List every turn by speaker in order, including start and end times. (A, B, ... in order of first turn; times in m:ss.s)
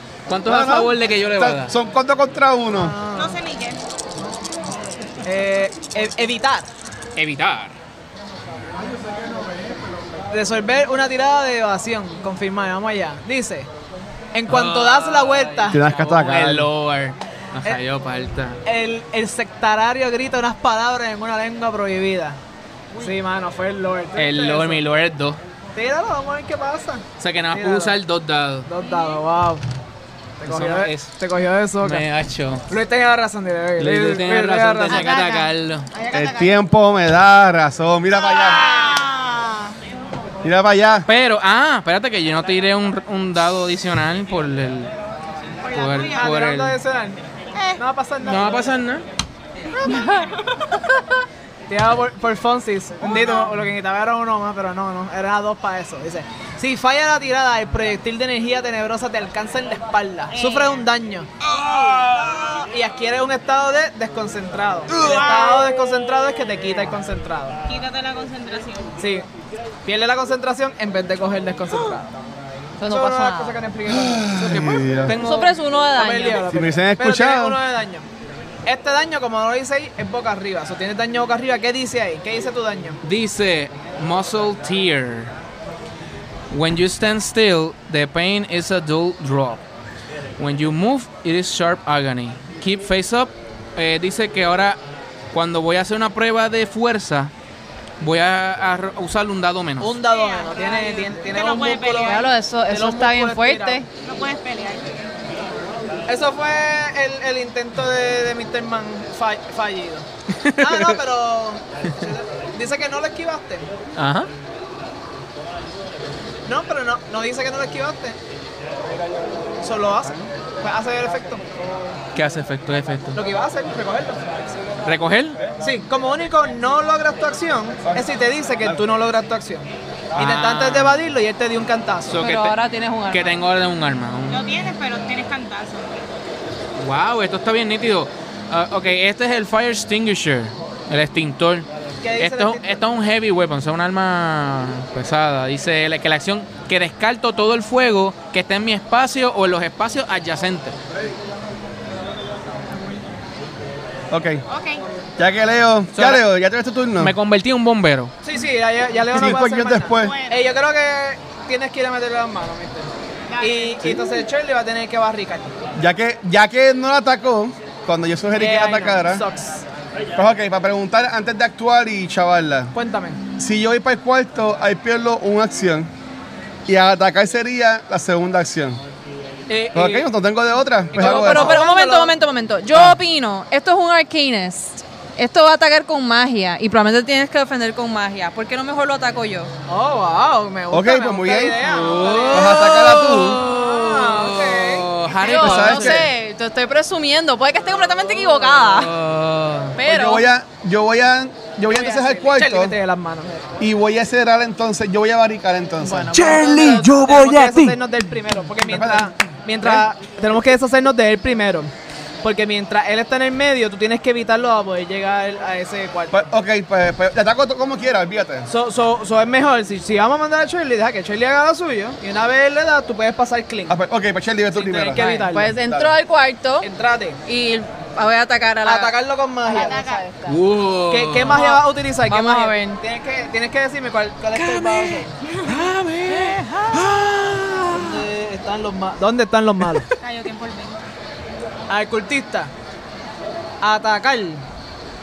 0:00.3-0:01.7 A
0:00.4-0:02.9 B
0:02.7-0:03.4 C
0:03.1-0:03.8 D
0:05.2-0:06.7 C
0:07.2-0:07.7 A
0:10.3-0:13.7 C
0:14.3-0:15.8 C
0:14.5-0:18.6 A
0:15.7-0:16.7 B
0:18.6-0:22.4 C
0:23.0-0:24.8 C
0:24.2-0:25.4 A
0:25.7-0:27.9 C
0:27.2-0:28.7 A
0:28.7-0:29.6 C
0:28.8-0:29.2 D
0:30.4-0:32.0 C
0:30.4-0:31.1 A
0:31.8-0:32.7 A
0:32.7-0:35.1 C
0:33.8-0:35.9 A
0:34.9-0:36.5 D
0:36.1-0:38.7 B
0:38.1-0:39.7 D
0:40.4-0:41.1 B
0:41.1-0:44.9 A
0:45.6-0:46.4 D
0:45.7-0:46.8 A
0:46.1-0:47.2 C
0:47.5-0:47.8 D
0:47.8-0:48.7 C
0:48.2-0:49.0 A
0:49.8-0:50.3 D
0:51.7-1:01.3 C
0:53.2-0:53.4 D
1:00.3-1:00.8 D
1:02.3-1:07.6 C
1:04.9-1:05.7 D
1:07.7-1:08.9 D
1:09.0-1:09.2 C
1:09.8-1:12.1 C
1:12.8-1:13.5 E
1:12.8-1:14.7 C
1:13.9-1:15.2 B
1:14.3-1:15.5 A
1:15.2-1:16.4 E
1:15.9-1:18.0 C
1:16.4-1:17.6 B
1:18.6-1:23.0 C
1:23.0-1:25.3 A
1:26.5-1:29.6 A
1:30.4-1:34.8 A
1:35.3-1:37.3 A
1:38.0-1:40.0 A
1:39.8-1:43.8 C
1:40.0-1:42.3 D
1:42.0-1:43.9 E
1:44.0-1:44.9 D
1:46.1-1:50.0 C
1:50.3-1:51.0 A
1:50.6-1:53.7 C
1:54.0-1:54.3 A
1:56.5-1:58.2 C
1:59.6-2:01.4 C
2:02.1-2:03.2 A
2:03.1-2:04.4 C
2:04.8-2:05.4 A
2:05.6-2:12.2 C
2:10.2-2:11.0 A
2:12.1-2:12.6 A
2:12.2-2:13.4 E
2:13.1-2:14.5 A
2:14.3-2:15.9 D
2:16.8-2:21.7 A
2:22.0-2:22.7 C
2:22.2-2:30.7 A
2:34.1-2:34.4 B
2:34.5-2:34.8 D
2:35.2-2:37.1 B
2:35.9-2:36.2 A
2:37.0-2:38.1 A
2:38.2-2:42.9 C
2:39.1-2:40.2 B
2:39.9-2:40.4 D
2:43.3-2:43.9 D
2:43.4-2:45.5 C
2:45.8-2:49.2 B
2:48.3-2:49.6 C
2:50.2-2:52.7 B
2:52.7-2:53.2 C
2:53.4-2:55.9 B
2:56.7-2:58.8 B
2:59.5-3:00.0 A
2:59.7-3:01.6 B
3:00.9-3:02.2 C
3:01.0-3:09.5 E
3:09.7-3:14.9 C
3:10.7-3:11.6 B
3:11.6-3:16.1 A
3:12.3-3:13.4 B
3:15.1-3:18.9 E
3:15.4-3:16.1 B
3:18.7-3:19.8 A
3:19.7-3:20.3 E
3:19.8-3:22.7 B
3:21.7-3:23.5 C
3:23.6-3:26.1 B
3:25.8-3:31.7 C
3:26.1-3:27.8 A
3:28.6-3:29.8 B
3:32.2-3:36.2 C
3:36.1-3:38.5 B
3:38.5-3:43.8 C
3:43.7-3:45.9 B
3:44.5-3:45.5 C
3:44.9-3:46.7 E
3:46.6-3:47.2 C
3:47.2-3:48.9 E
3:48.6-3:49.8 C
3:49.5-3:50.3 E
3:49.5-3:50.1 D
3:50.2-3:51.4 A
3:50.9-3:55.1 C
3:51.3-3:52.8 E
3:54.3-3:58.0 A
3:55.2-3:56.7 D
3:57.7-3:59.9 C
4:00.0-4:00.8 D
4:01.7-4:02.5 C
4:03.6-4:04.4 C